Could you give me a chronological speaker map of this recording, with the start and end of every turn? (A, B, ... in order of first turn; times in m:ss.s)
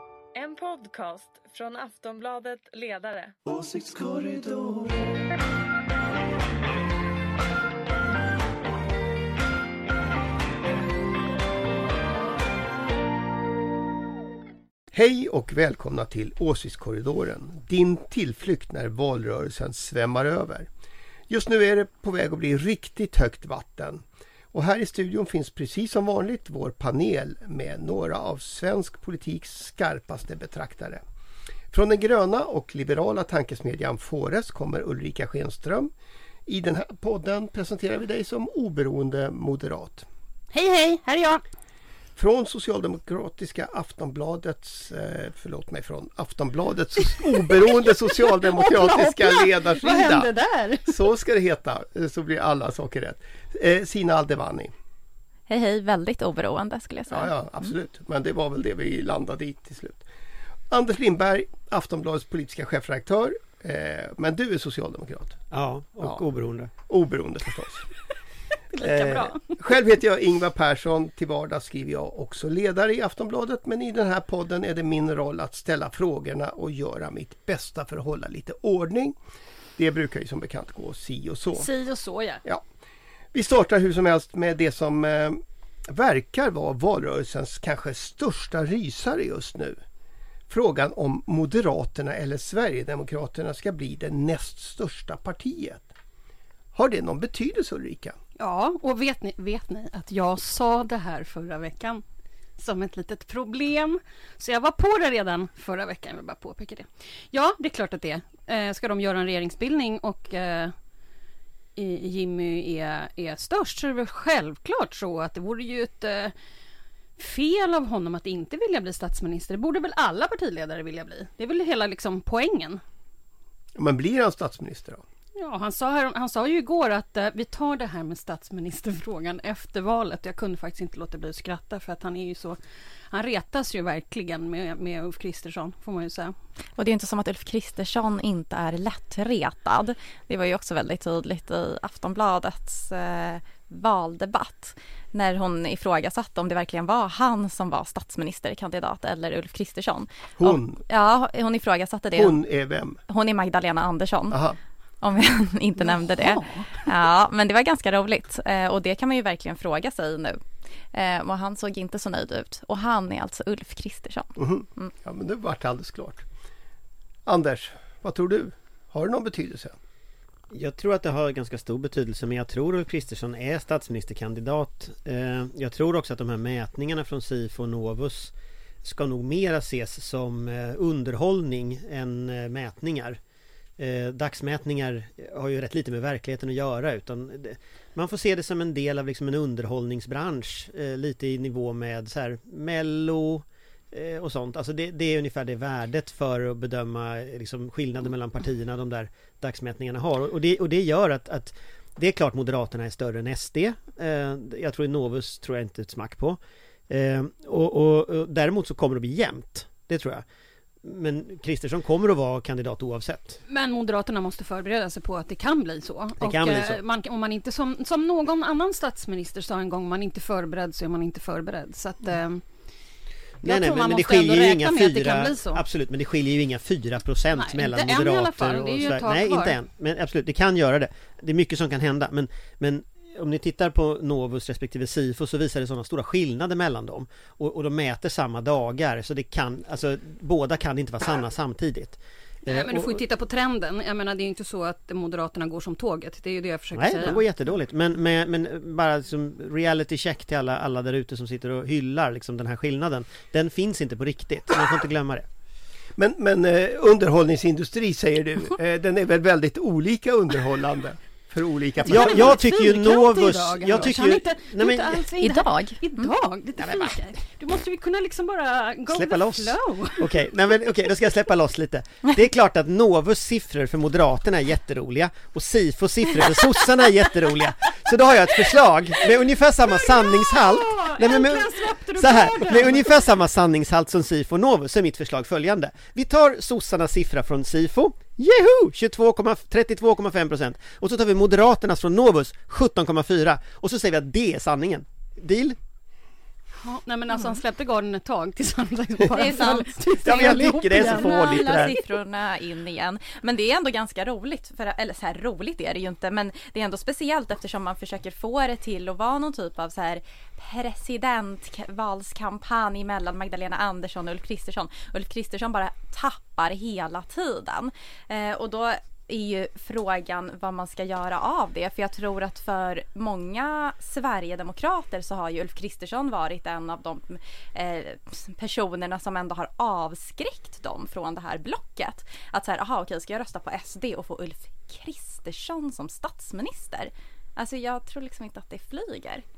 0:00.3-0:03.4 A
0:14.9-0:20.7 B
0:21.3-0:31.0 B
0:31.7-0:35.9 B
0:36.5-0:40.1 B
0:40.5-0:41.4 C
0:42.2-0:50.3 B
0:47.2-0:51.0 C
0:50.9-0:54.7 B
0:55.5-0:57.3 D
0:57.1-1:00.1 B
1:00.7-1:05.4 B
1:05.5-1:06.7 E
1:06.9-1:07.9 B
1:08.7-1:09.7 C
1:08.8-1:19.2 B
1:19.8-1:21.7 B
1:21.5-1:22.4 C
1:23.3-1:29.8 B
1:30.5-1:35.9 B
1:36.7-1:38.2 B
1:38.4-1:42.0 C
1:42.6-1:50.8 C
1:51.8-1:56.3 C
1:57.2-2:02.8 C
2:03.8-2:05.0 B
2:05.4-2:12.6 C
2:13.1-2:16.4 C
2:16.8-2:32.4 D
2:30.4-2:30.8 B
2:32.2-2:33.0 B
2:33.1-2:34.4 D
2:34.3-2:34.6 B
2:35.0-2:40.4 D
2:35.8-2:36.9 C
2:40.9-2:44.9 D
2:44.4-2:46.2 B
2:47.3-2:49.8 B
2:50.5-3:03.2 E
3:03.8-3:30.2 E
3:30.8-3:33.4 E
3:33.5-3:42.4 C
3:36.2-3:36.8 E
3:43.4-4:03.0 E
3:43.4-3:45.6 C
3:47.4-3:49.6 C
4:02.5-4:07.2 C
4:06.8-4:15.3 E
4:16.0-4:22.4 B
4:21.9-4:30.2 C
4:21.9-4:25.0 E
4:25.2-4:26.1 D
4:26.6-4:27.0 E
4:28.9-4:55.6 E
4:39.9-4:43.0 C
4:56.6-5:01.8 C
4:59.1-5:39.2 D
5:00.0-5:01.8 E